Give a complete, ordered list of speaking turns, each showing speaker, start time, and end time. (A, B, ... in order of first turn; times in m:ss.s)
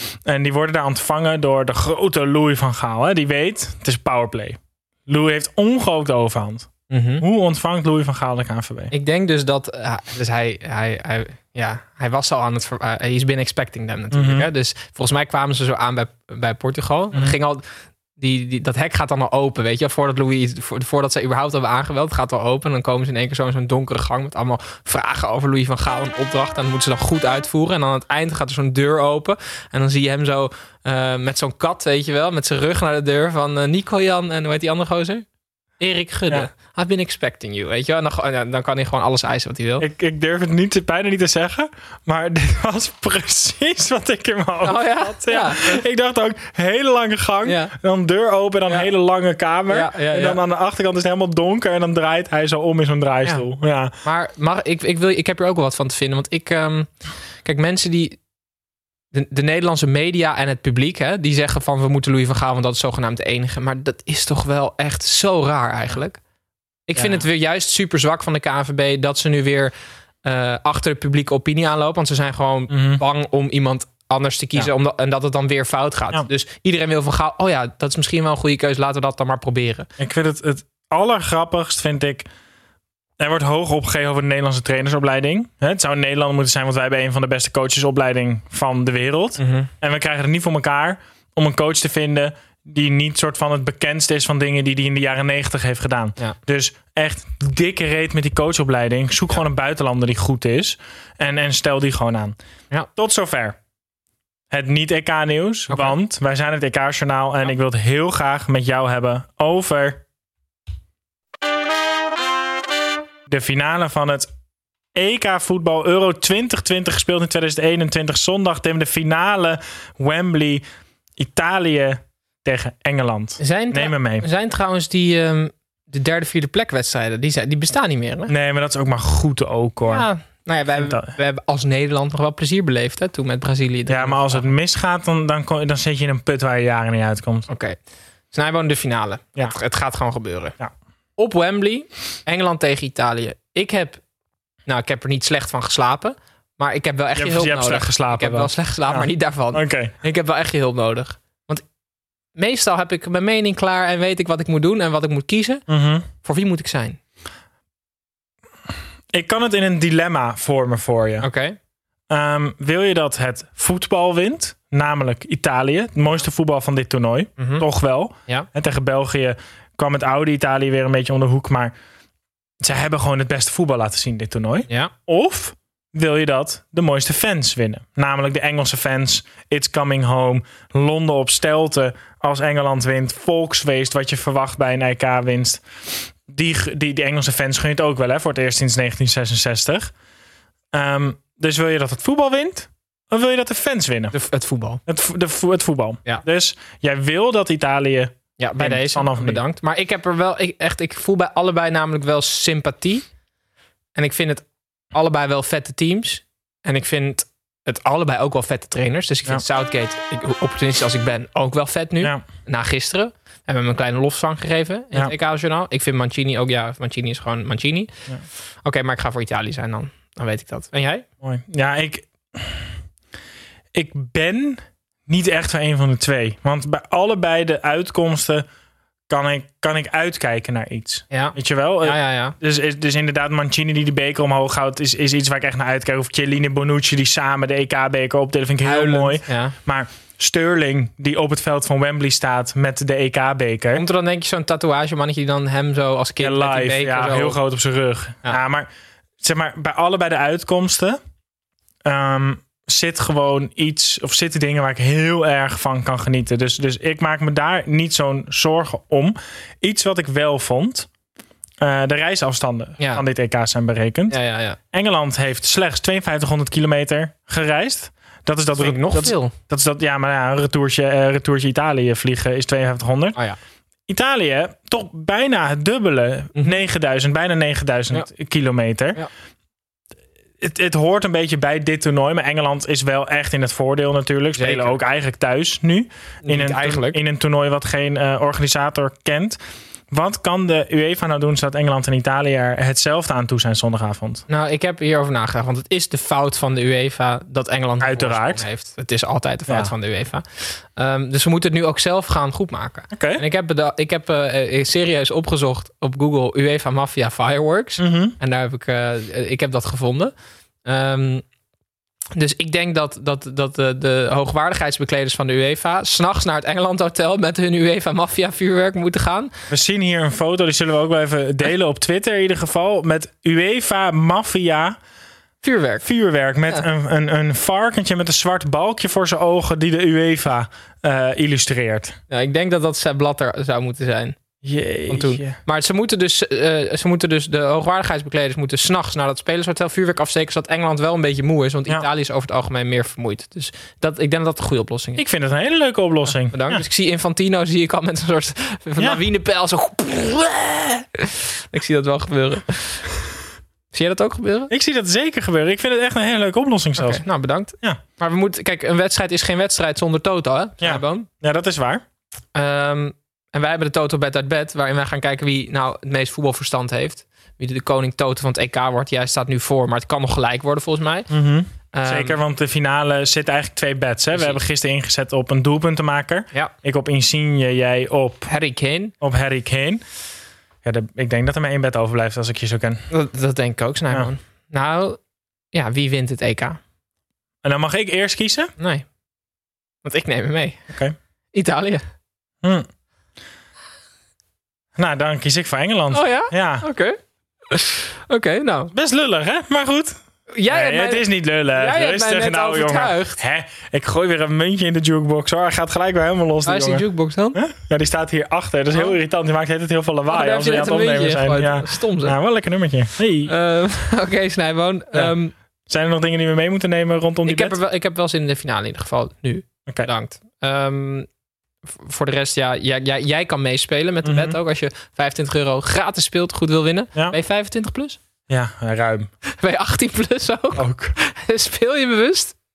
0:00.2-0:08.9 A
0:06.9-0:07.2 B
0:08.9-0:17.6 B
0:14.1-0:14.5 A
0:18.2-0:35.2 B
0:35.8-0:39.9 B
0:39.8-0:53.9 A
0:44.6-0:45.8 B
0:47.4-0:47.7 B
0:49.7-0:50.4 B
0:54.0-0:56.9 B
0:57.4-0:58.2 B
0:59.1-1:06.2 B
1:06.9-1:19.9 B
1:06.9-1:07.2 A
1:12.7-1:13.0 A
1:20.0-1:22.3 A
1:23.2-1:42.4 A
1:29.4-1:29.7 B
1:43.0-1:43.6 A
1:44.5-1:50.0 A
1:45.7-1:46.0 B
1:53.3-1:54.3 A
1:54.9-2:00.6 A
2:01.2-2:04.3 A
2:03.4-2:08.3 B
2:08.3-2:10.0 A
2:09.8-2:14.5 B
2:10.7-2:11.1 A
2:13.9-2:17.5 A
2:17.5-2:17.8 B
2:18.3-2:20.6 B
2:21.2-2:24.0 B
2:24.6-2:31.6 B
2:27.2-2:29.9 A
2:32.4-2:35.7 B
2:35.7-2:36.1 A
2:36.2-2:37.0 B
2:39.1-2:41.3 A
2:41.2-2:41.6 B
2:42.1-2:51.7 A
2:47.4-2:47.6 B
2:52.6-3:05.6 A
2:54.7-2:54.9 B
3:06.2-3:09.9 A
3:10.7-3:14.2 A
3:14.1-3:14.8 B
3:14.8-3:19.4 A
3:18.4-3:23.0 B
3:23.9-3:37.9 B
3:38.6-3:41.0 B
3:41.2-3:42.7 A
3:43.7-3:48.4 A
3:49.1-4:03.8 A
3:51.1-3:52.3 B
3:58.6-3:59.5 B
4:03.7-4:07.4 B
4:06.2-4:08.7 A
4:09.2-4:11.0 A
4:11.8-4:20.9 A
4:21.6-4:24.2 A
4:24.1-4:24.6 B
4:24.7-4:33.2 A
4:28.6-4:29.3 B
4:33.9-4:39.0 A
4:40.4-4:49.4 A
4:44.4-4:44.8 B
4:46.2-4:47.0 B
4:49.9-4:54.2 A
4:54.3-5:10.1 B
4:57.8-4:58.4 A
5:02.9-5:03.2 A
5:07.8-5:08.2 A
5:10.6-5:11.2 B
5:12.1-5:19.3 B
5:19.5-5:24.8 A
5:25.4-5:25.9 B
5:25.8-5:32.0 A
5:32.1-5:34.2 B
5:34.4-5:35.4 A
5:34.9-5:45.0 B
5:45.0-5:46.6 A
5:46.3-5:53.0 B
5:53.7-5:54.5 B
5:54.5-5:57.0 A
5:56.8-6:01.1 B
6:00.6-6:01.8 A
6:02.3-6:11.1 B
6:11.1-6:18.3 A
6:11.7-6:12.2 B
6:14.1-6:14.4 B
6:18.2-6:18.9 B
6:19.0-6:19.8 A
6:20.6-6:22.8 A
6:22.9-6:25.0 B
6:25.5-6:26.6 B
6:27.4-6:28.5 A
6:28.6-6:28.8 B
6:29.8-6:30.6 B
6:30.7-6:30.9 A
6:31.3-6:31.8 B
6:34.8-6:36.6 A
6:35.9-6:37.0 B
6:37.5-6:38.7 B
6:38.7-6:53.3 A
6:40.3-6:43.2 B
6:46.4-6:47.4 B
6:50.1-6:52.2 B
6:53.2-6:55.3 B
6:55.7-6:57.6 A
6:57.2-7:01.1 B
7:01.6-7:08.0 B
7:04.0-7:04.4 A
7:08.3-7:09.1 A
7:09.3-7:12.3 B
7:10.5-7:10.9 A